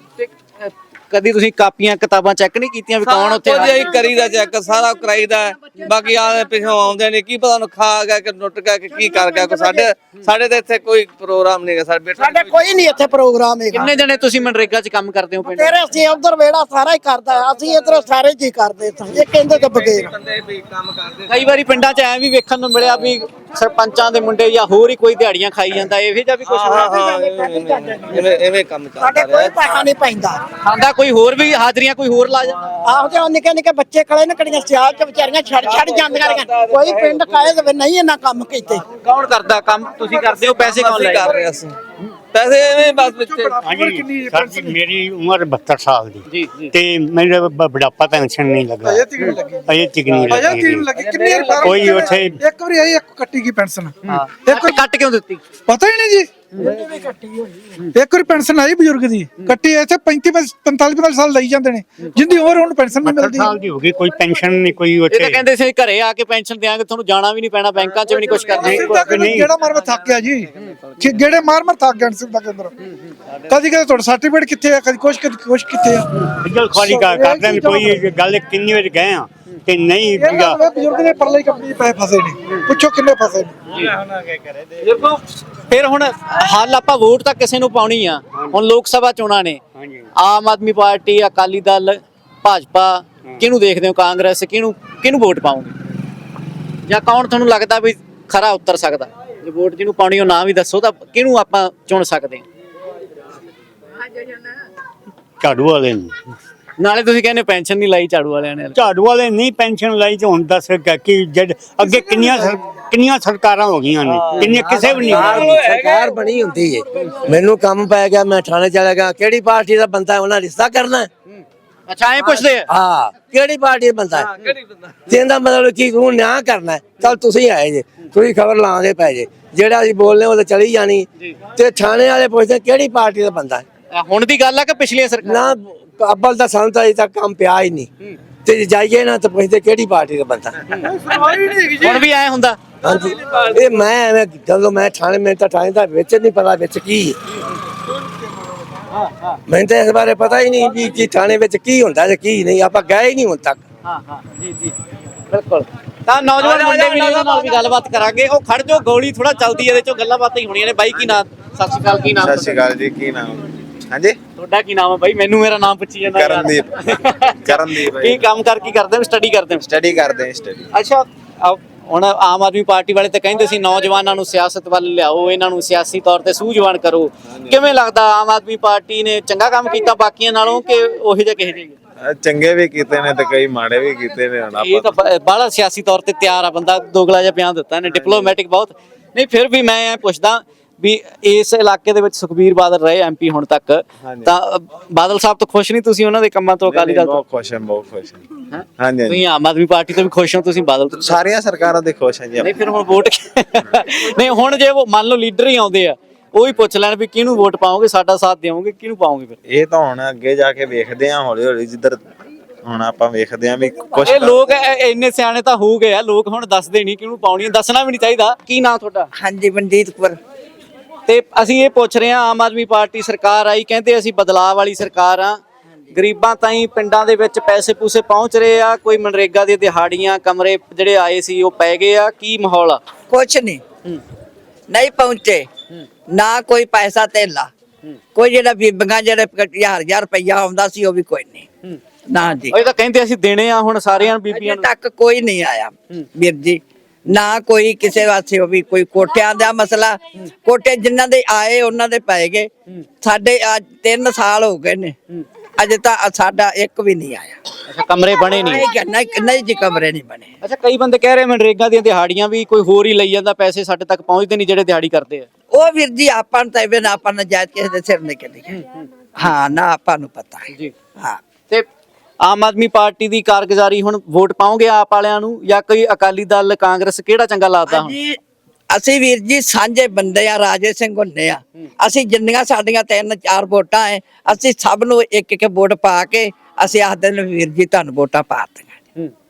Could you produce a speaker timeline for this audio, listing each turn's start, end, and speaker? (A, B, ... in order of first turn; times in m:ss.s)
0:00.2-0:04.0 A
0:03.0-0:12.6 B
0:09.5-0:09.8 C
0:12.2-0:13.9 C
0:13.7-0:15.8 A
0:15.4-0:20.1 C
0:19.7-0:21.4 B
0:21.3-0:27.0 A
0:26.5-0:29.8 B
0:26.7-0:28.4 C
0:29.0-0:30.4 C
0:30.6-0:32.7 A
0:32.8-0:38.8 C
0:35.6-0:37.4 B
0:39.0-0:41.4 A
0:40.6-0:41.8 B
0:42.3-0:43.6 B
0:42.8-0:44.8 D
0:43.6-0:49.1 E
0:46.3-0:46.7 A
0:48.8-0:54.8 D
0:49.7-0:50.9 E
0:51.0-0:51.9 B
0:51.6-0:52.4 E
0:54.1-0:55.4 A
0:55.7-0:56.3 D
0:56.6-0:57.7 C
0:57.9-1:03.6 D
1:03.0-1:05.4 E
1:05.1-1:09.2 A
1:08.0-1:08.5 B
1:08.5-1:09.5 E
1:08.6-1:12.7 D
1:09.7-1:11.1 B
1:13.5-1:16.1 D
1:16.4-1:20.6 E
1:16.7-1:18.0 D
1:20.2-1:23.6 D
1:23.7-1:24.0 A
1:24.8-1:29.6 A
1:30.2-1:35.7 A
1:36.9-1:42.4 A
1:45.4-1:46.1 E
1:46.8-1:48.8 A
1:48.8-1:55.6 E
1:54.1-2:01.1 F
1:54.3-1:56.2 B
2:01.3-2:02.7 A
2:02.7-2:04.3 F
2:04.4-2:05.0 B
2:05.1-2:13.6 F
2:13.9-2:15.5 A
2:15.2-2:17.9 F
2:18.4-2:20.6 F
2:20.7-2:22.6 A
2:21.1-2:21.8 B
2:22.8-2:27.2 F
2:22.9-2:23.6 B
2:28.9-2:29.4 A
2:29.5-2:33.6 F
2:33.8-2:34.8 A
2:35.3-2:42.6 A
2:42.1-2:44.2 G
2:44.4-2:49.6 A
2:46.0-2:46.7 G
2:47.4-2:48.3 G
2:49.5-2:50.7 G
2:50.7-3:01.7 A
3:02.0-3:05.0 G
3:04.6-3:17.2 A
3:07.9-3:08.2 G
3:14.0-3:14.3 G
3:16.6-3:18.2 G
3:18.5-3:21.2 A
3:18.8-3:19.2 G
3:20.9-3:22.5 G
3:22.4-3:29.4 A
3:29.5-3:32.0 G
3:32.6-3:34.6 G
3:34.0-3:39.1 A
3:39.2-3:40.2 H
3:41.1-3:45.4 A
3:45.9-3:52.8 A
3:53.1-3:53.6 H
3:54.7-3:55.5 H
3:56.1-3:57.5 H
3:58.2-4:01.5 H
4:02.1-4:02.6 H
4:02.5-4:04.7 A
4:04.3-4:12.5 H
4:13.0-4:15.0 H
4:15.6-4:17.4 H
4:17.7-4:18.6 A
4:18.2-4:20.3 H
4:20.4-4:25.3 A
4:25.5-4:28.6 H
4:29.2-4:31.2 H
4:32.2-4:37.9 A
4:37.7-4:38.2 H
4:38.7-4:48.8 H